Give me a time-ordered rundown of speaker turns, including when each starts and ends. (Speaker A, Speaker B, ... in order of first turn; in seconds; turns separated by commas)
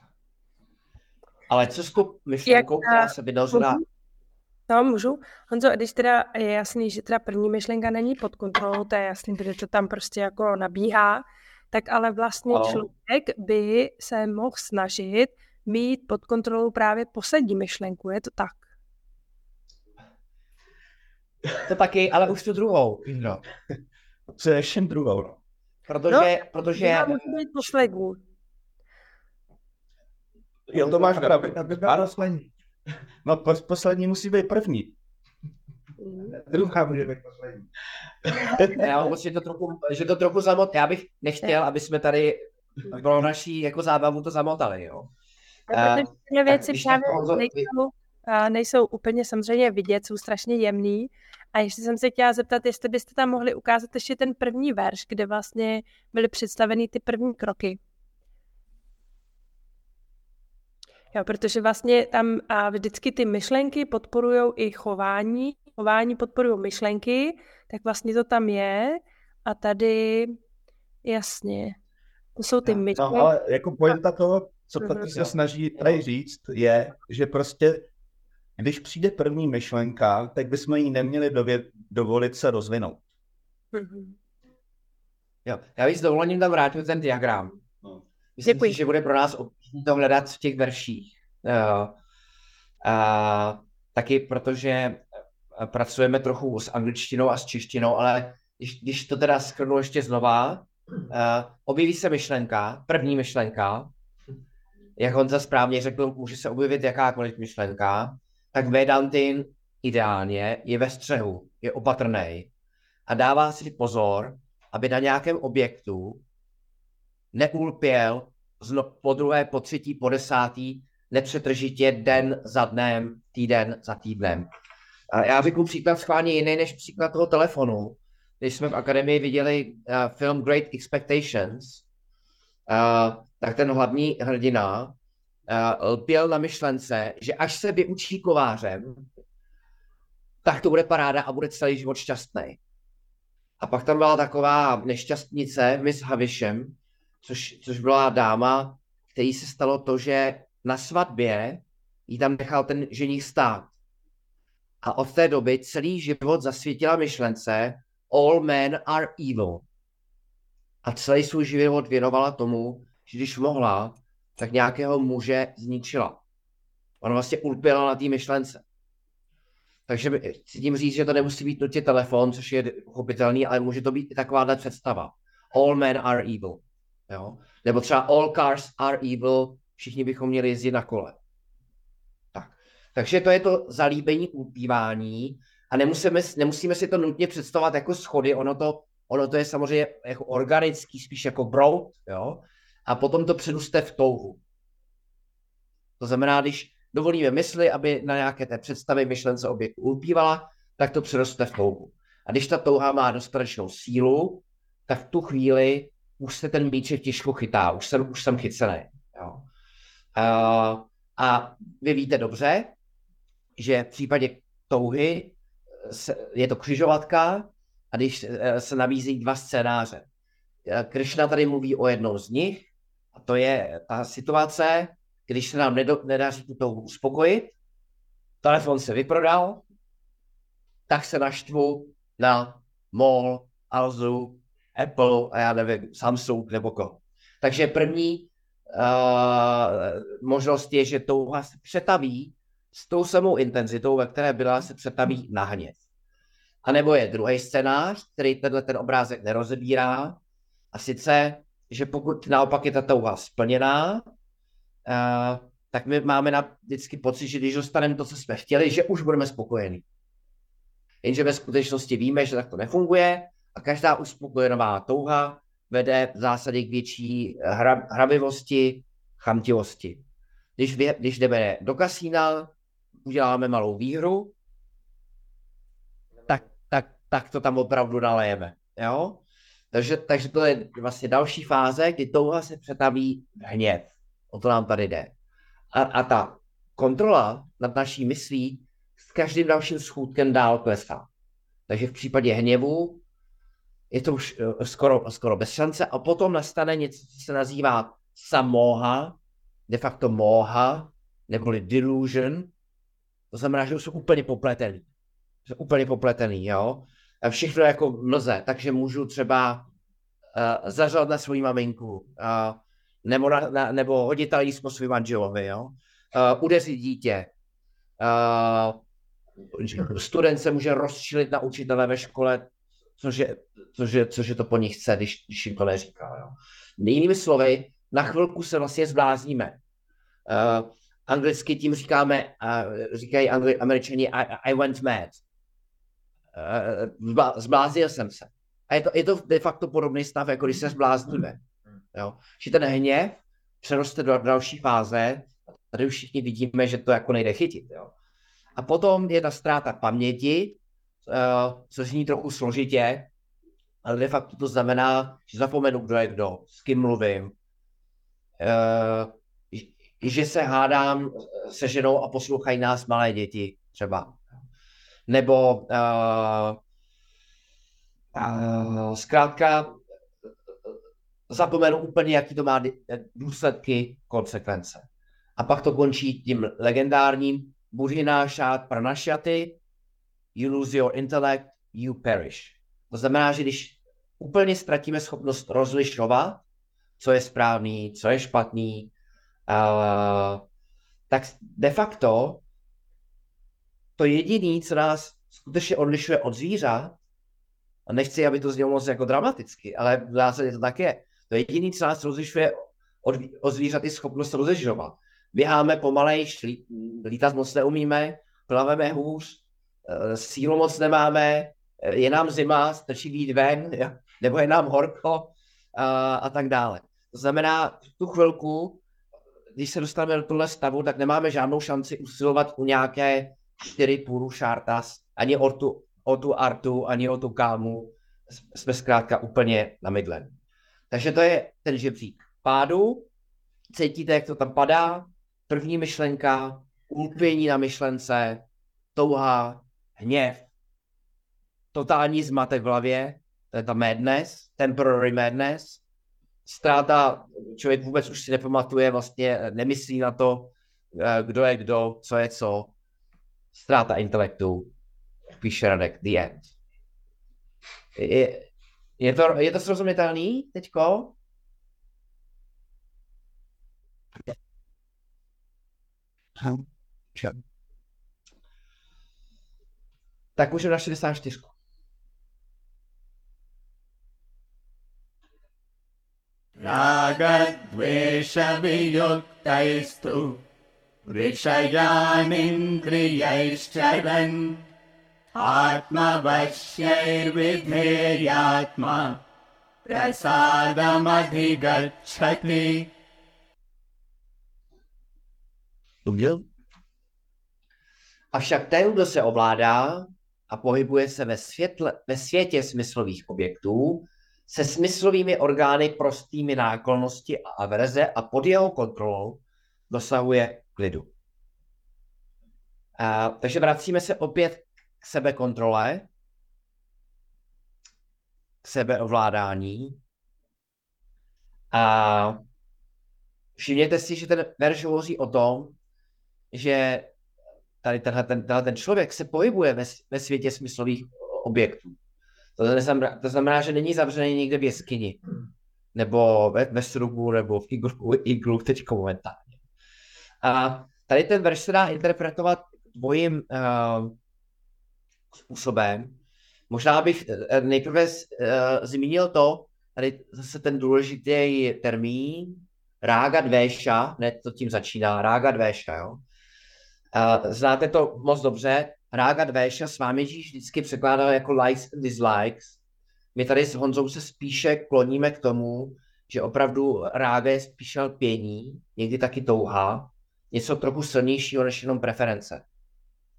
Speaker A: 1.5-3.8, Speaker B: 2.5-3.8, Speaker B: 4.7-18.6, Speaker C: 12.5-12.8, Speaker A: 21.7-23.4, Speaker C: 24.4-25.4, Speaker A: 25.9-27.7, Speaker B: 26.1-28.2, Speaker C: 30.7-32.2, Speaker D: 30.7-32.5, Speaker C: 33.2-34.9, Speaker B: 36.0-36.4, Speaker D: 36.3-37.7, Speaker C: 38.3-38.8, Speaker A: 38.8-45.1, Speaker A: 45.7-47.7, Speaker B: 45.7-57.8, Speaker B: 61.1-70.3, Speaker B: 71.0-71.8, Speaker B: 72.3-73.3, Speaker C: 72.9-77.9, Speaker B: 74.8-75.2, Speaker C: 78.6-83.0, Speaker B: 83.7-84.2, Speaker A: 85.4-87.6, Speaker A: 88.4-92.0, Speaker B: 88.4-88.8, Speaker A: 92.8-95.0, Speaker A: 95.5-103.9, Speaker A: 105.0-112.5, Speaker A: 113.1-116.2, Speaker A: 117.3-124.5, Speaker A: 125.1-131.8, Speaker A: 132.7-134.9, Speaker A: 135.5-139.1, Speaker A: 140.4-142.6, Speaker A: 143.6-153.7, Speaker A: 154.8-159.6, Speaker A: 160.8-166.2, Speaker A: 167.0-168.6, Speaker A: 169.9-181.2, Speaker A: 182.3-194.4, Speaker A: 196.0-209.4, Speaker A: 210.1-212.7, Speaker A: 213.6-220.1, Speaker A: 220.7-227.5, Speaker A: 228.4-229.6, Speaker A: 230.9-245.8, Speaker A: 246.6-250.2, Speaker A: 250.7-254.1, Speaker A: 254.8-259.8, Speaker A: 261.0-270.0, Speaker A: 270.6-272.5, Speaker A: 273.0-274.3, Speaker A: 276.3-279.2, Speaker A: 279.7-285.1, Speaker A: 285.7-291.1, Speaker A: 291.7-293.0, Speaker A: 293.9-299.2, Speaker A: 299.7-302.5, Speaker A: 303.3-304.9, Speaker A: 305.5-309.7, Speaker A: 310.3-317.3, Speaker A: 318.0-318.8, Speaker A: 319.5-322.5, Speaker A: 323.0-329.6, Speaker A: 330.3-335.2, Speaker A: 336.3-341.4, Speaker A: 341.9-347.9, Speaker A: 348.6-353.1, Speaker A: 353.8-357.3, Speaker A: 358.4-364.2, Speaker A: 365.1-366.6, Speaker A: 368.1-369.8, Speaker A: 371.3-374.9, Speaker A: 375.4-379.6, Speaker A: 380.3-386.4, Speaker A: 387.0-388.9, Speaker A: 389.5-390.4, Speaker A: 391.1-392.4, Speaker A: 394.0-397.0, Speaker A: 397.9-418.8, Speaker A: 419.6-430.3, Speaker A: 430.9-433.1, Speaker A: 433.7-440.5, Speaker A: 441.7-445.8, Speaker A: 446.4-452.7, Speaker A: 453.5-454.7, Speaker A: 455.4-456.5, Speaker A: 457.9-461.1, Speaker D: 466.4-467.4, Speaker A: 470.4-471.5, Speaker E: 476.6-480.4, Speaker E: 481.1-484.7, Speaker E: 485.3-489.2, Speaker E: 489.9-492.9, Speaker C: 496.0-496.4, Speaker A: 498.3-511.1, Speaker A: 513.0-516.1, Speaker A: 518.6-520.0, Speaker A: 521.7-522.4, Speaker A: 523.6-525.8, Speaker A: 526.5-527.1, Speaker A: 527.8-532.0, Speaker A: 532.6-535.2, Speaker A: 535.9-539.5, Speaker A: 540.4-544.1, Speaker A: 545.3-546.1, Speaker A: 546.7-556.2, Speaker A: 557.1-562.8, Speaker A: 563.3-572.6